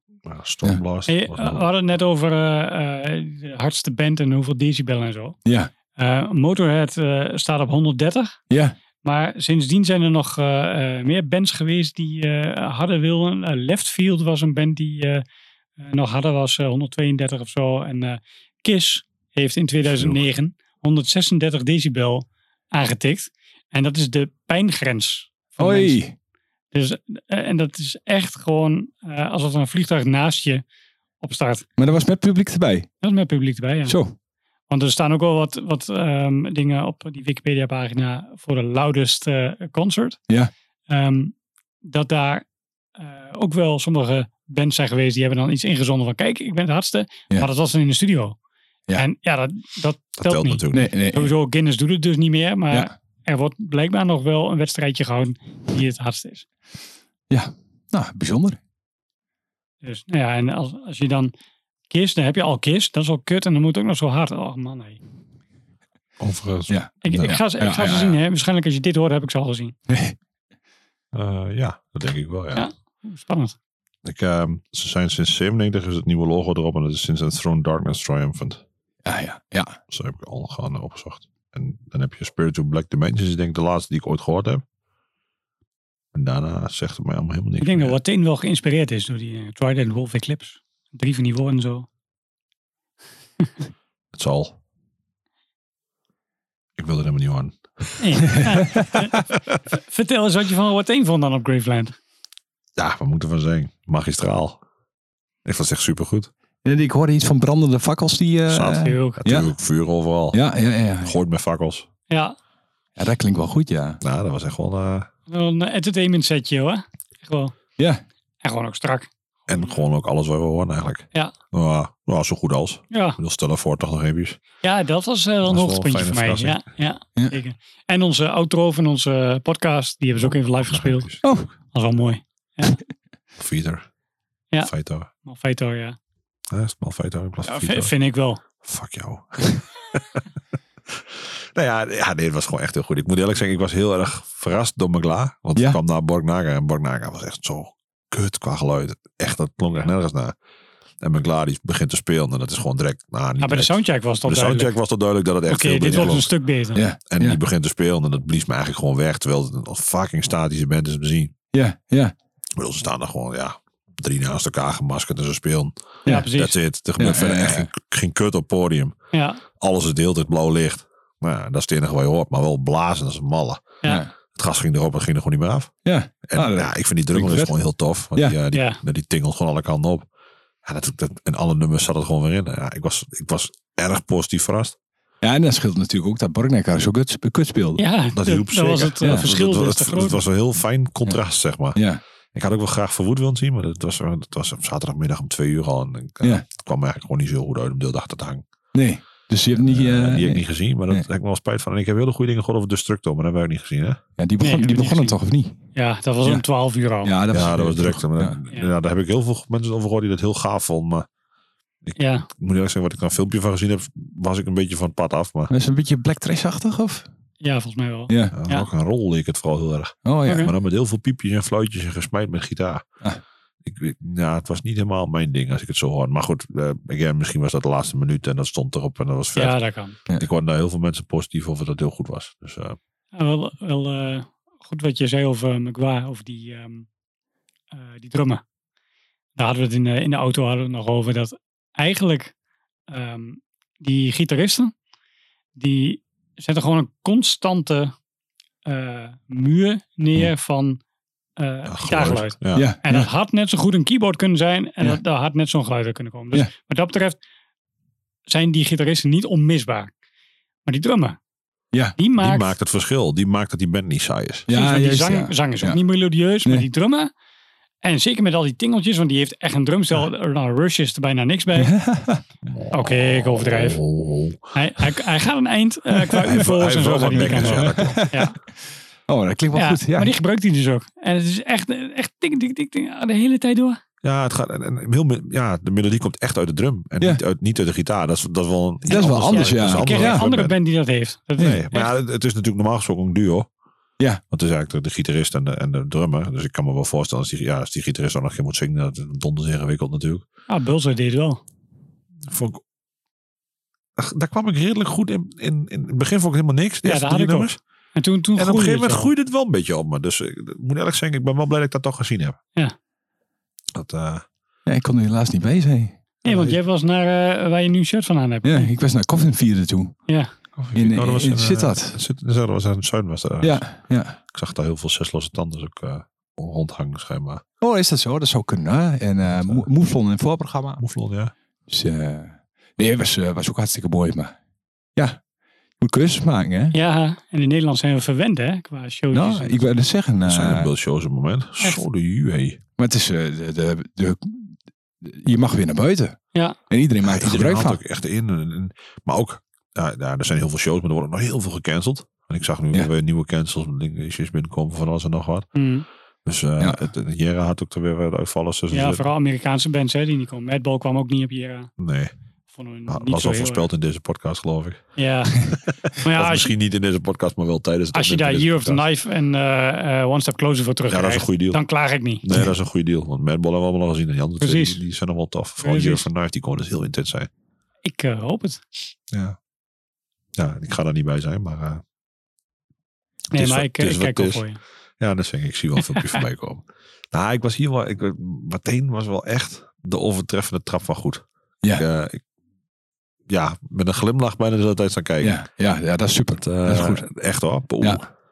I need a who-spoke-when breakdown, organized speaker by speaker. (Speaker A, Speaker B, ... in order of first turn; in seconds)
Speaker A: 0.3-1.7, 19.9-20.2, 50.2-50.9, 66.2-67.4, 71.1-72.7, 74.0-78.6, 79.9-84.6, 86.1-88.0, 94.2-94.5, 96.8-98.4, 102.8-104.6, 105.5-106.3, 108.5-110.4, 111.0-111.9, 114.0-115.1, 119.5-124.4, 125.4-126.6, 130.2-131.3, 133.4-133.9, 134.6-135.1, 136.5-137.9, 138.6-140.2, 140.9-150.3, 151.0-156.3, 157.1-161.3, 162.6-165.7, 166.3-168.9, 169.6-173.6, 174.3-175.7, 176.3-180.1, 180.7-184.8, 188.2-191.8, 192.3-198.4, 199.6-204.0, 207.3-211.1, 211.9-215.5, 218.3-222.8, 223.7-229.6, 230.2-232.8, 251.7-252.7, 262.2-264.5, 272.5-274.5, 276.2-278.1, 284.0-290.6, 291.4-293.5, 294.3-300.2, 302.3-302.6, 304.0-307.6, 308.4-312.4, 313.8-314.2, 316.3-316.6, 320.6-327.4, 329.2-329.7, 330.8-331.3, 340.3-342.6, 347.0-355.5, 356.2-359.1, 361.8-362.1, 362.9-368.8, 370.9-371.6, 372.2-377.3, 380.4-381.8, 383.3-384.4, 385.0-391.2, 391.8-392.2, 393.3-395.4, 396.4-398.1
Speaker B: 1.1-5.4, 6.0-8.4, 9.0-15.2, 15.8-26.0, 26.7-30.6, 31.2-31.7, 33.0-34.0, 34.7-40.2, 40.9-42.5, 43.0-48.4, 49.0-56.5, 59.8-61.3, 61.9-65.0, 67.0-69.7, 72.5-73.6, 87.6-91.9, 98.0-99.2, 99.9-102.0, 108.7-109.2, 112.1-112.4, 115.3-117.5, 118.4-119.7, 122.9-123.2, 124.6-131.1, 131.7-132.8, 135.2-136.0, 137.5-138.4, 153.4-154.7, 155.5-156.8, 166.1-166.6, 169.1-169.4, 178.5-178.8, 187.8-190.2, 204.4-205.2, 205.8-207.1, 212.0-212.3, 217.4-218.7, 220.3-220.5, 229.4-230.0, 233.1-236.9, 237.7-238.4, 239.4-242.3, 242.9-244.7, 245.6-247.9, 248.7-250.8, 251.4-257.2, 258.3-259.9, 260.6-261.2, 262.0-262.5, 264.5-267.1, 267.8-271.8, 272.7-273.8, 274.6-278.3, 279.6-283.8, 289.3-291.9, 300.5-301.4, 306.8-309.1, 316.2-318.7, 336.7-339.6, 355.6-355.9, 358.7-361.7, 362.5-363.7, 365.0-365.4, 366.0-366.5, 367.9-372.2, 374.4-374.8, 375.6-376.1, 377.9-378.9, 383.3-384.6, 386.0-386.2
Speaker C: 5.5-5.7, 8.5-8.8, 25.6-26.1, 31.8-32.9, 33.9-34.1, 50.7-51.3, 57.3-58.6, 66.7-68.1, 69.9-70.2, 79.0-79.8, 98.3-98.9, 106.7-109.5, 110.3-111.2, 113.0-114.0, 131.2-131.5, 155.9-156.2, 156.7-157.4, 161.5-162.2, 167.0-167.7, 173.8-174.1, 175.8-177.5, 185.2-187.8, 191.8-192.0, 198.7-201.1, 204.2-205.6, 207.0-208.4, 215.5-217.1, 218.1-218.4, 220.1-220.5, 252.5-253.1, 264.5-265.8, 271.6-272.2, 277.4-278.3, 279.1-280.2, 288.9-290.2, 314.7-315.9, 318.4-320.0, 320.8-322.0, 323.4-324.2, 327.6-330.8, 331.7-334.4, 335.8-336.8, 339.1-340.7, 342.8-346.2, 346.7-347.8, 395.2-397.1